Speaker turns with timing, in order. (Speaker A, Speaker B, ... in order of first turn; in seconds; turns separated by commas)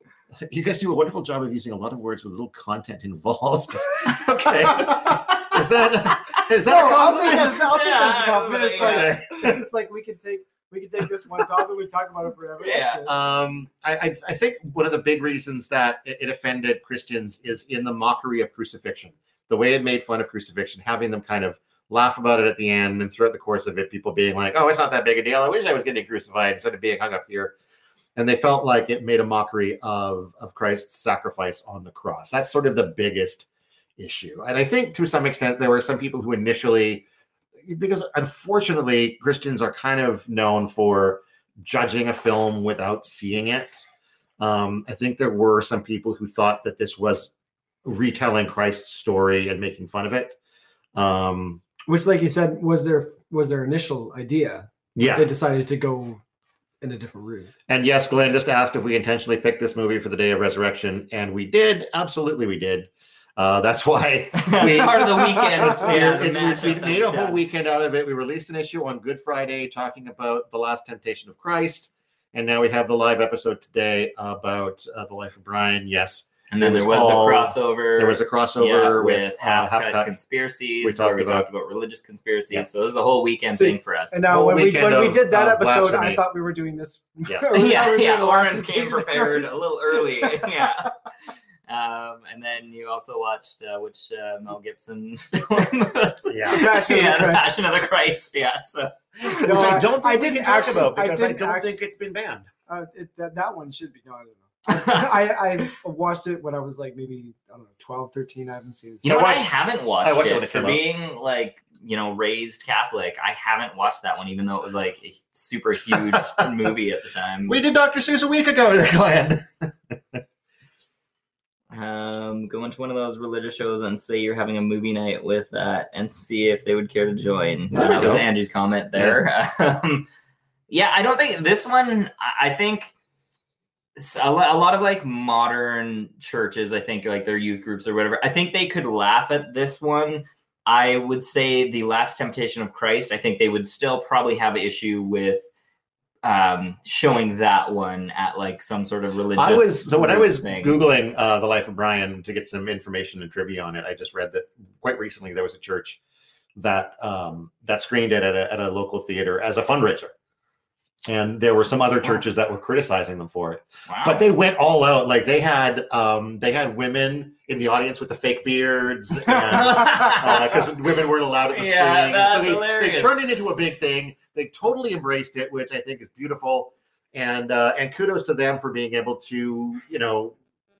Speaker A: 0.4-7.7, Speaker B: 6.6-13.1, Speaker C: 7.0-9.2, Speaker A: 8.8-9.6, Speaker C: 12.6-13.1, Speaker A: 13.0-27.5, Speaker A: 28.1-33.5, Speaker A: 34.0-37.0, Speaker A: 37.6-43.9, Speaker A: 44.4-47.3, Speaker A: 47.8-50.4, Speaker A: 50.9-51.6, Speaker B: 51.9-56.2, Speaker A: 54.9-55.3, Speaker B: 56.8-57.5, Speaker A: 57.7-80.1, Speaker C: 64.3-67.4, Speaker C: 76.5-84.2, Speaker A: 80.8-81.5, Speaker B: 83.5-90.7, Speaker A: 84.3-86.2, Speaker C: 87.5-91.0, Speaker C: 91.7-99.8, Speaker A: 96.3-96.7, Speaker B: 96.5-97.6, Speaker B: 99.4-101.8, Speaker A: 99.4-102.5, Speaker B: 102.7-109.2, Speaker C: 104.7-105.7, Speaker C: 109.0-117.6, Speaker A: 109.0-110.8, Speaker A: 115.9-116.5, Speaker A: 117.5-120.2, Speaker C: 121.7-130.1, Speaker A: 127.7-128.3, Speaker C: 130.7-132.9, Speaker C: 133.9-145.4, Speaker C: 146.2-150.8, Speaker A: 149.3-156.0, Speaker A: 156.6-160.1, Speaker A: 161.1-180.3, Speaker C: 163.9-164.2, Speaker C: 169.5-170.6, Speaker C: 171.5-173.1